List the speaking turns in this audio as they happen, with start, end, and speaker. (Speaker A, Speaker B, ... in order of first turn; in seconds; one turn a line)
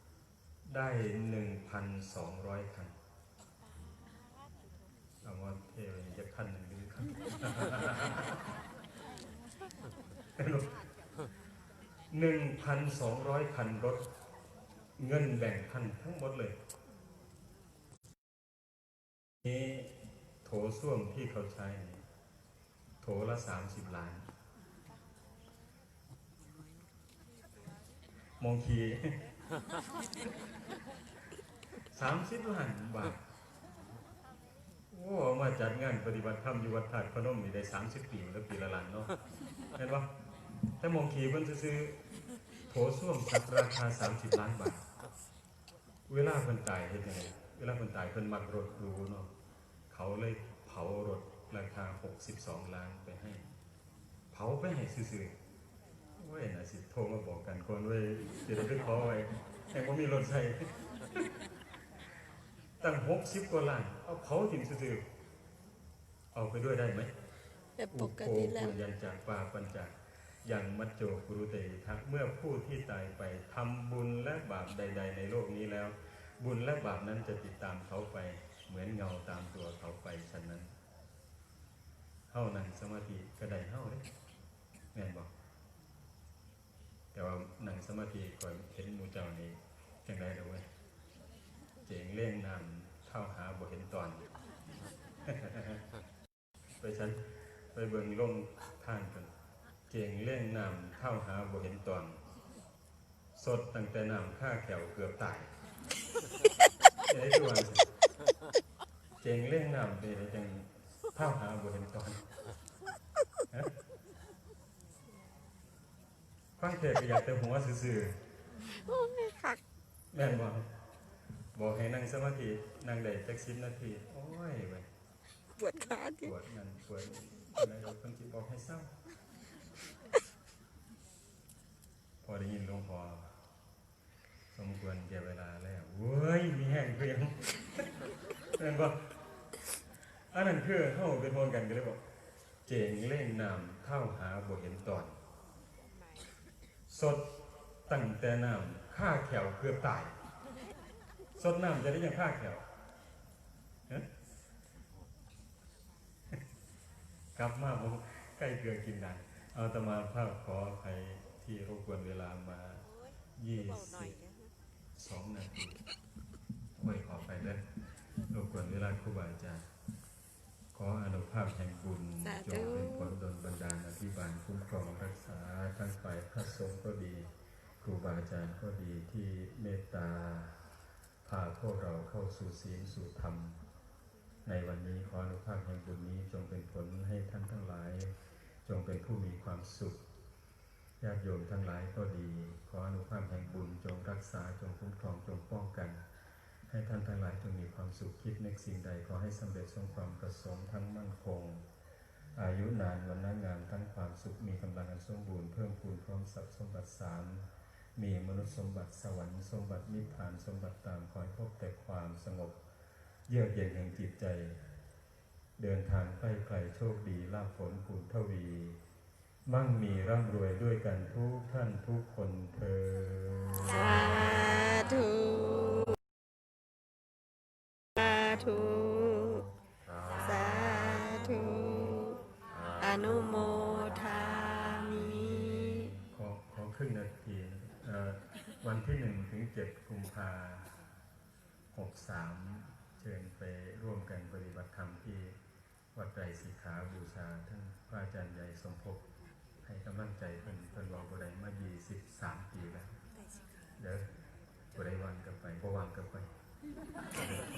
Speaker A: 0.7-2.9
Speaker A: 5.2-8.5
Speaker A: 10.4-10.8
Speaker A: 12.1-14.1
Speaker A: 15.0-16.6
Speaker A: 19.4-22.1
Speaker A: 23.0-24.3
Speaker A: 28.4-29.2
Speaker A: 31.9-33.2
Speaker A: 34.9-39.1
Speaker A: 39.8-40.1
Speaker A: 40.7-42.1
Speaker A: 42.7-44.9
Speaker A: 46.1-49.3
Speaker A: 49.9-53.5
Speaker A: 54.3-55.4
Speaker A: 56.2-61.4
Speaker A: 62.8-65.0
Speaker A: 66.3-67.1
Speaker B: 67.8-68.8
Speaker A: 67.9-80.7
Speaker A: 82.3-84.1
Speaker A: 84.9-85.3
Speaker A: 87.1-90.7
Speaker A: 91.8-94.3
Speaker A: 95.2-95.8
Speaker A: 96.8-99.3
Speaker A: 99.9-102.2
Speaker A: 103.4-105.5
Speaker A: 107.0-107.9
Speaker A: 109.2-112.3
Speaker A: 116.6-118.2
Speaker B: 118.8-119.6
Speaker A: 120.1-120.7
Speaker A: 121.5-124.9
Speaker B: 125.6-126.3
Speaker A: 126.2-128.9
Speaker A: 132.2-133.3
Speaker A: 134.5-139.1
Speaker A: 140.3-142.0
Speaker A: 142.7-145.2
Speaker A: 146.9-150.2
Speaker A: 151.4-152.7
Speaker A: 157.4-162.8
Speaker A: 163.4-164.2
Speaker A: 165.0-165.8
Speaker A: 166.8-167.7
Speaker A: 168.3-169.7
Speaker A: 170.7-180.7
Speaker B: 172.2-173.2
Speaker A: 181.2-183.6
Speaker A: 184.5-190.0
Speaker A: 191.0-196.0
Speaker A: 196.7-201.7
Speaker A: 202.3-212.6
Speaker A: 213.3-214.6
Speaker A: 215.6-218.8
Speaker A: 219.5-224.6
Speaker B: 223.6-226.0
Speaker B: 228.0-229.5
Speaker B: 230.2-232.2
Speaker B: 232.8-235.9
Speaker A: 235.9-240.8
Speaker A: 241.7-245.4
Speaker A: 245.9-249.0
Speaker A: 249.6-253.0
Speaker A: 253.8-254.1
Speaker A: 254.7-256.3